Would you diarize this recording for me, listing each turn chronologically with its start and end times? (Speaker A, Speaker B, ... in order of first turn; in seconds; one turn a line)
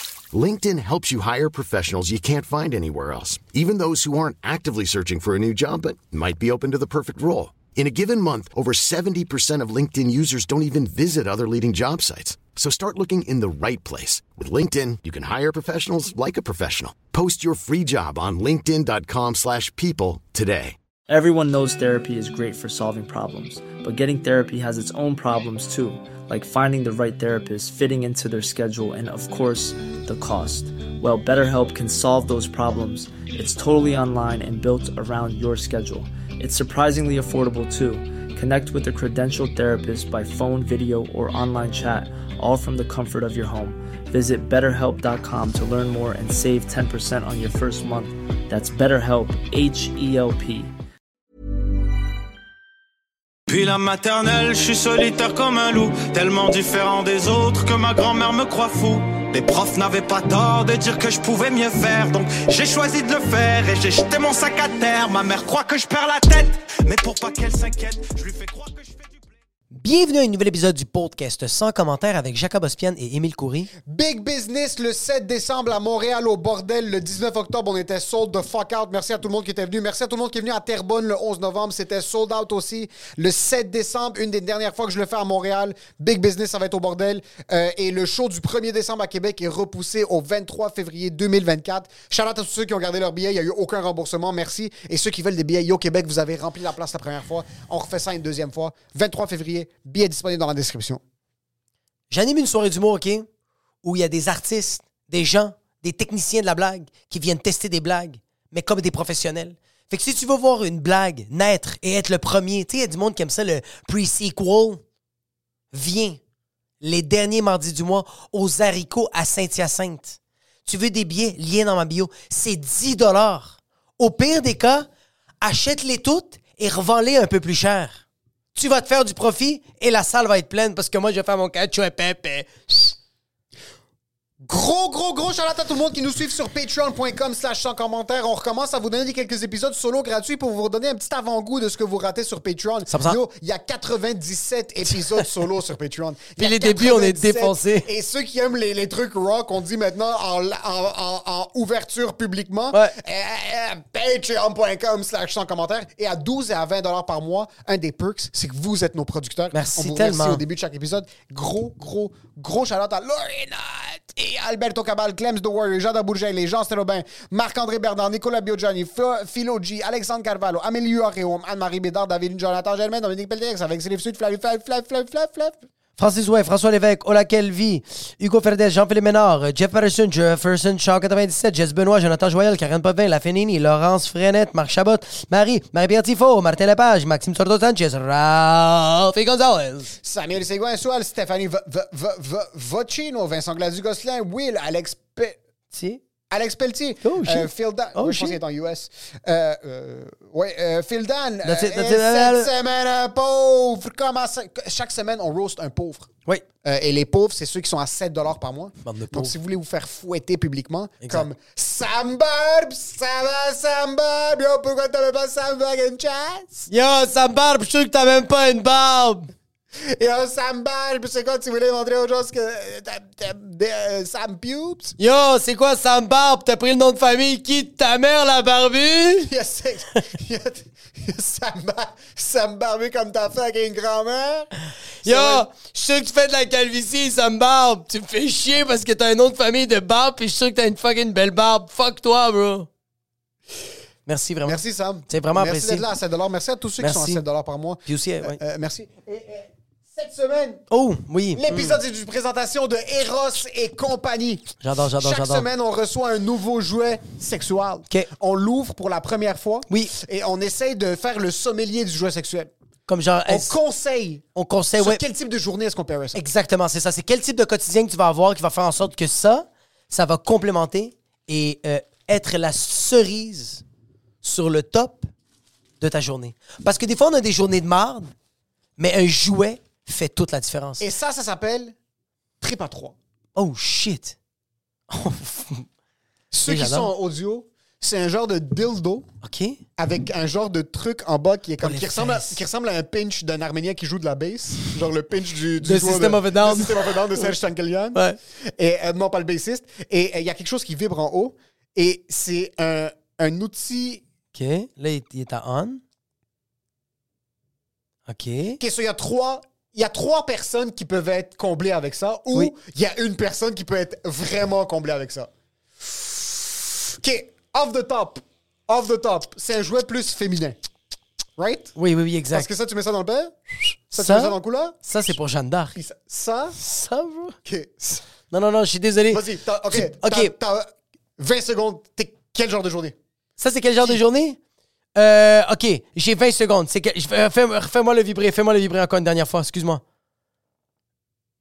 Speaker A: 0.3-20.8
Speaker B: 21.1-50.7
Speaker C: 53.5-69.2
Speaker D: 69.7-73.7
Speaker E: 73.9-101.0
Speaker D: 102.1-103.3
Speaker D: 103.8-114.8
Speaker D: 115.7-116.2
Speaker D: 116.8-124.9
Speaker D: 125.4-128.0
Speaker D: 128.6-133.0
Speaker E: 134.4-175.6
Speaker D: 142.9-143.2
Speaker D: 144.9-145.3
Speaker D: 146.4-147.9
Speaker D: 159.5-160.4
Speaker D: 176.0-190.0
Speaker E: 190.0-195.4
Speaker D: 195.7-196.0
Speaker E: 196.3-206.1
Speaker D: 197.0-198.4
Speaker D: 201.4-202.5
Speaker E: 206.6-216.7
Speaker D: 208.8-209.3
Speaker D: 211.0-211.3
Speaker D: 216.7-219.3
Speaker E: 219.8-225.0
Speaker D: 225.0-229.3
Speaker E: 229.2-234.5
Speaker D: 235.0-242.7
Speaker E: 235.0-235.4
Speaker D: 244.1-245.9
Speaker E: 244.5-250.6
Speaker D: 246.8-247.2
Speaker D: 247.9-248.4
Speaker D: 250.7-251.8
Speaker E: 251.3-262.5
Speaker D: 254.6-255.5
Speaker D: 262.9-263.6
Speaker E: 263.3-264.3
Speaker D: 264.4-265.0
Speaker E: 264.8-266.2
Speaker D: 266.1-273.6
Speaker D: 274.2-275.1
Speaker D: 275.8-278.1
Speaker D: 278.8-280.9
Speaker E: 280.8-281.8
Speaker E: 282.4-283.0
Speaker D: 283.4-284.2
Speaker D: 284.9-285.7
Speaker E: 286.3-289.1
Speaker D: 286.5-286.9
Speaker D: 289.2-289.6
Speaker E: 289.8-298.0
Speaker D: 291.6-292.4
Speaker D: 295.6-297.3
Speaker E: 298.6-304.0
Speaker D: 304.3-305.8
Speaker D: 308.1-308.6
Speaker E: 308.6-315.3
Speaker E: 315.8-320.6
Speaker E: 321.4-321.7
Speaker D: 321.8-322.5
Speaker E: 322.3-324.8
Speaker D: 324.0-325.8
Speaker E: 325.8-326.6
Speaker D: 326.6-327.4
Speaker E: 327.4-328.1
Speaker D: 328.3-330.3
Speaker E: 329.1-333.0
Speaker D: 333.4-334.4
Speaker D: 335.0-339.8